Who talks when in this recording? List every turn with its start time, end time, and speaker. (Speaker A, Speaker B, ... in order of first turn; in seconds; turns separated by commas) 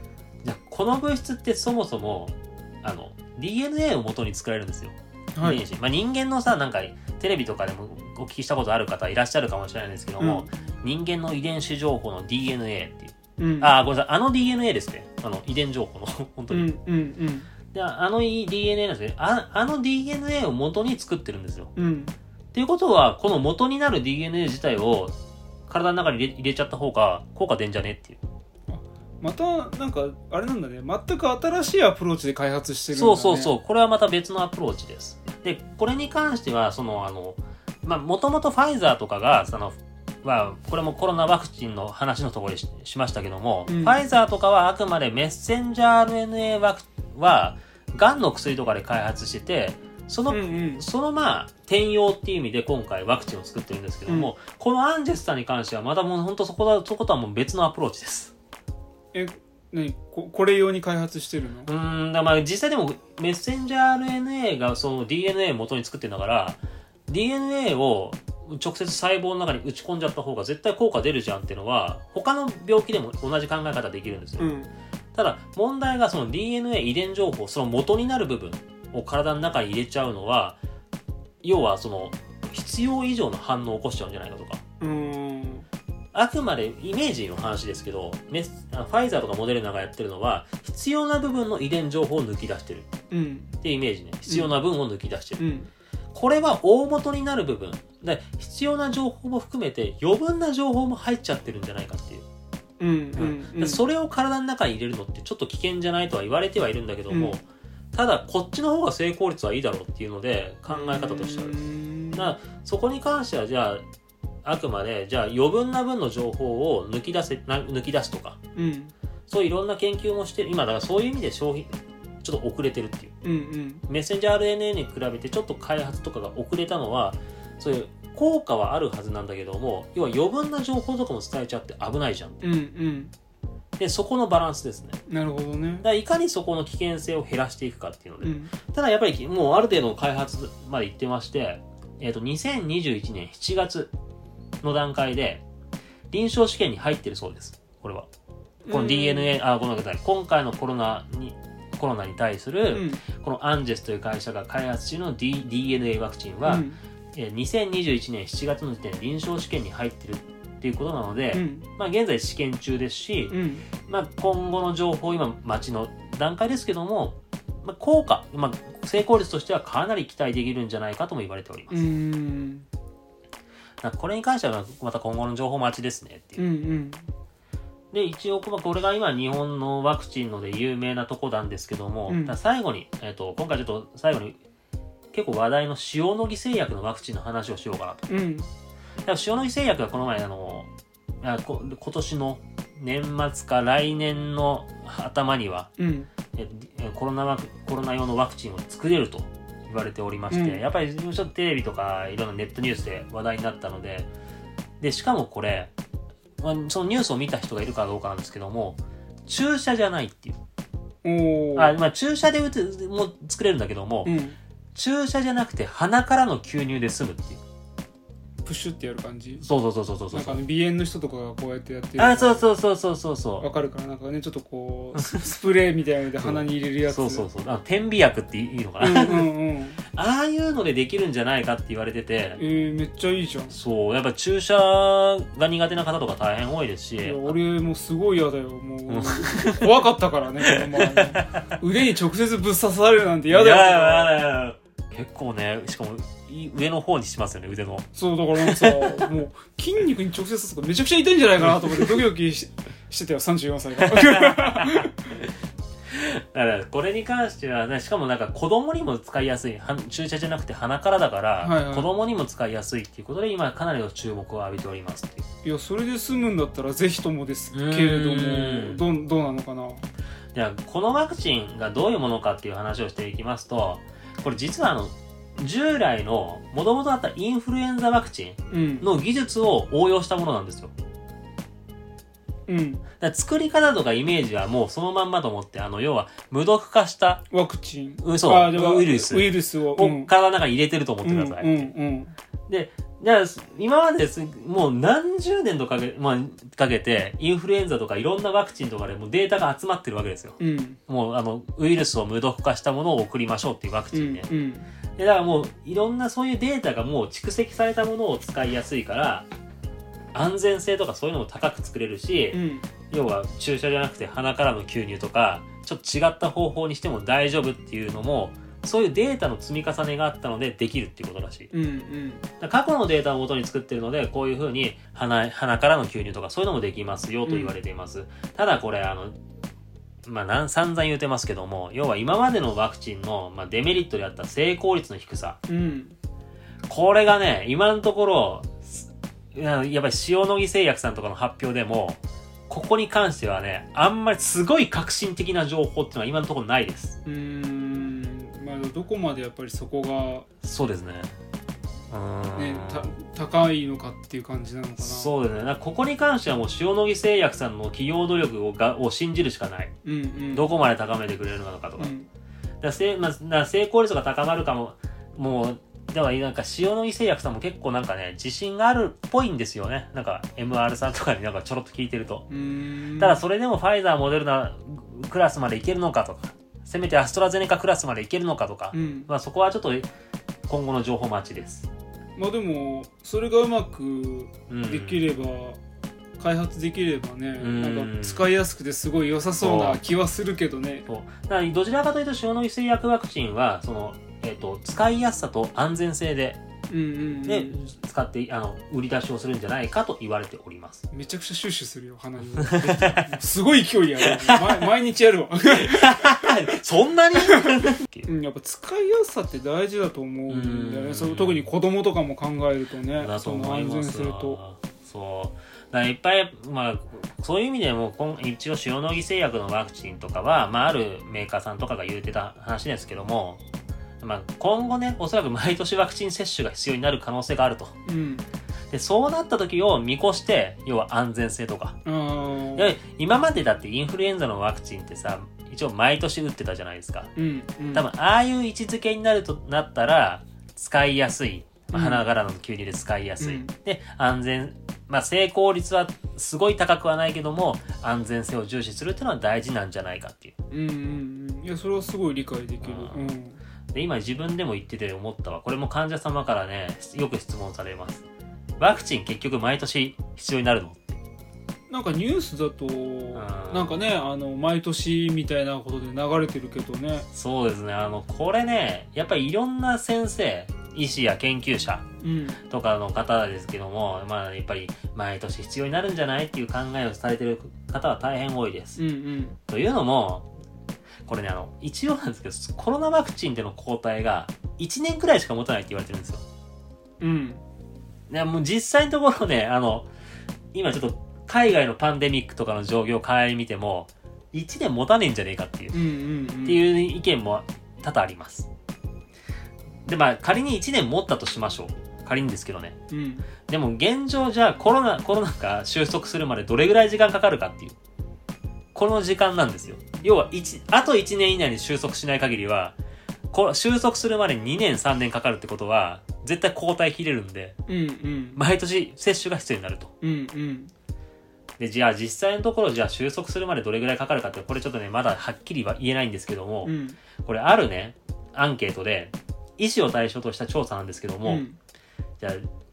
Speaker A: 0.4-16.7, Speaker B: 5.3-5.6, Speaker B: 10.2-10.5, Speaker B: 13.4-13.7, Speaker B: 16.5-17.5, Speaker A: 17.7-21.7, Speaker B: 21.8-22.2, Speaker A: 22.5-25.2, Speaker A: 25.7-28.2, Speaker B: 28.7-33.5, Speaker A: 32.9-58.3, Speaker B: 43.7-44.0, Speaker B: 50.3-50.9, Speaker B: 54.1-54.3, Speaker B: 59.1-61.7, Speaker A: 61.7-74.5, Speaker B: 74.4-74.7, Speaker A: 75.1-80.6, Speaker A: 81.4-84.6, Speaker B: 84.8-85.7, Speaker A: 86.1-92.9, Speaker B: 93.1-93.6, Speaker A: 93.6-95.4, Speaker B: 94.3-94.5, Speaker B: 95.4-95.7, Speaker A: 96.1-102.2, Speaker B: 102.8-103.8, Speaker A: 103.2-111.6, Speaker B: 107.1-107.4, Speaker B: 110.7-112.3, Speaker A: 112.1-113.8, Speaker A: 114.4-118.4, Speaker B: 118.5-118.9, Speaker A: 119.3-123.1, Speaker B: 123.2-123.8, Speaker A: 123.9-132.4, Speaker B: 132.4-133.1, Speaker A: 133.8-135.0, Speaker B: 135.1-135.9, Speaker A: 135.8-143.9, Speaker B: 138.2-138.5, Speaker A: 144.6-145.4, Speaker A: 146.1-148.1, Speaker B: 148.6-149.3, Speaker A: 148.7-171.9, Speaker B: 152.7-153.0, Speaker B: 156.4-156.8, Speaker B: 161.3-161.7, Speaker B: 163.3-163.7, Speaker B: 171.7-172.7, Speaker A: 173.8-176.4, Speaker B: 176.4-177.1, Speaker A: 177.9-184.4, Speaker B: 182.1-182.4, Speaker A: 185.1-188.1, Speaker B: 188.1-188.5, Speaker A: 189.1-190.7, Speaker A: 191.2-195.7, Speaker B: 195.8-196.1, Speaker A: 196.3-204.1, Speaker B: 200.3-200.6, Speaker A: 204.8-205.7, Speaker A: 206.4-210.4, Speaker B: 211.0-211.8, Speaker A: 211.6-214.1, Speaker B: 214.1-214.4, Speaker A: 214.7-217.4, Speaker B: 218.4-219.4, Speaker A: 219.4-220.4, Speaker B: 220.1-222.4, Speaker A: 222.0-223.5, Speaker B: 223.4-227.2, Speaker A: 224.9-225.3, Speaker A: 226.2-229.3, Speaker B: 228.8-229.8, Speaker A: 229.9-232.4, Speaker B: 232.4-233.6, Speaker A: 233.5-237.3, Speaker B: 237.0-244.1, Speaker A: 238.9-239.8, Speaker A: 240.4-241.6, Speaker A: 243.3-249.1, Speaker B: 247.9-255.1, Speaker A: 253.8-255.3, Speaker A: 255.9-265.2, Speaker B: 261.4-261.9, Speaker B: 265.4-269.8, Speaker A: 267.5-268.8, Speaker A: 270.3-280.7, Speaker B: 278.5-278.9, Speaker B: 282.5-282.8, Speaker A: 283.0-287.2, Speaker B: 287.3-290.1, Speaker A: 288.0-291.7, Speaker B: 291.0-292.1, Speaker A: 292.5-304.3, Speaker B: 300.4-300.8, Speaker B: 303.9-304.7, Speaker A: 305.0-309.3, Speaker A: 310.1-321.5, Speaker B: 312.3-312.7, Speaker B: 321.5-322.2, Speaker A: 322.4-329.2, Speaker B: 327.2-327.5, Speaker A: 330.1-335.4, Speaker B: 335.5-336.0, Speaker A: 336.7-347.0, Speaker B: 347.1-350.2, Speaker A: 350.4-351.1, Speaker A: 351.9-352.9, Speaker B: 352.4-355.1, Speaker A: 354.8-359.7, Speaker B: 359.8-360.5, Speaker A: 360.3-361.9, Speaker B: 361.8-362.1, Speaker A: 362.6-372.3, Speaker B: 372.3-373.2, Speaker A: 372.9-379.9, Speaker B: 378.7-379.1, Speaker A: 380.5-381.7, Speaker B: 382.2-385.6, Speaker A: 384.5-385.1, Speaker B: 386.2-390.8, Speaker A: 387.4-388.3, Speaker A: 389.4-389.8, Speaker A: 390.9-396.4, Speaker B: 396.7-397.6, Speaker A: 397.2-400.8, Speaker B: 400.9-406.5, Speaker A: 402.4-403.2, Speaker A: 404.0-404.5, Speaker A: 405.5-408.1, Speaker B: 407.1-414.4, Speaker A: 410.3-411.5, Speaker A: 413.0-423.4, Speaker A: 424.0-427.7, Speaker B: 427.9-428.2, Speaker A: 428.7-431.8, Speaker B: 431.8-432.7, Speaker A: 432.5-437.1, Speaker B: 437.2-437.8, Speaker A: 437.7-450.3, Speaker B: 441.7-442.0, Speaker B: 443.2-443.5, Speaker B: 450.5-453.4, Speaker A: 452.6-453.1, Speaker A: 453.7-458.1, Speaker A: 458.6-461.0, Speaker B: 461.7-467.1, Speaker A: 463.1-463.8, Speaker A: 467.1-471.9, Speaker B: 472.0-472.4, Speaker A: 472.4-478.8, Speaker B: 478.8-479.4, Speaker A: 479.5-480.3, Speaker A: 481.1-486.2, Speaker B: 487.0-487.4, Speaker A: 488.1-489.9, Speaker A: 490.5-495.8, Speaker B: 495.7-496.6, Speaker A: 496.4-498.5, Speaker A: 499.9-502.8, Speaker B: 502.9-503.3, Speaker A: 503.5-507.8, Speaker A: 508.7-512.8, Speaker A: 513.3-517.6, Speaker B: 517.7-518.4, Speaker A: 518.4-519.9, Speaker B: 520.0-520.7, Speaker A: 521.6-531.4, Speaker B: 526.6-527.0, Speaker B: 531.2-531.6, Speaker A: 532.2-532.5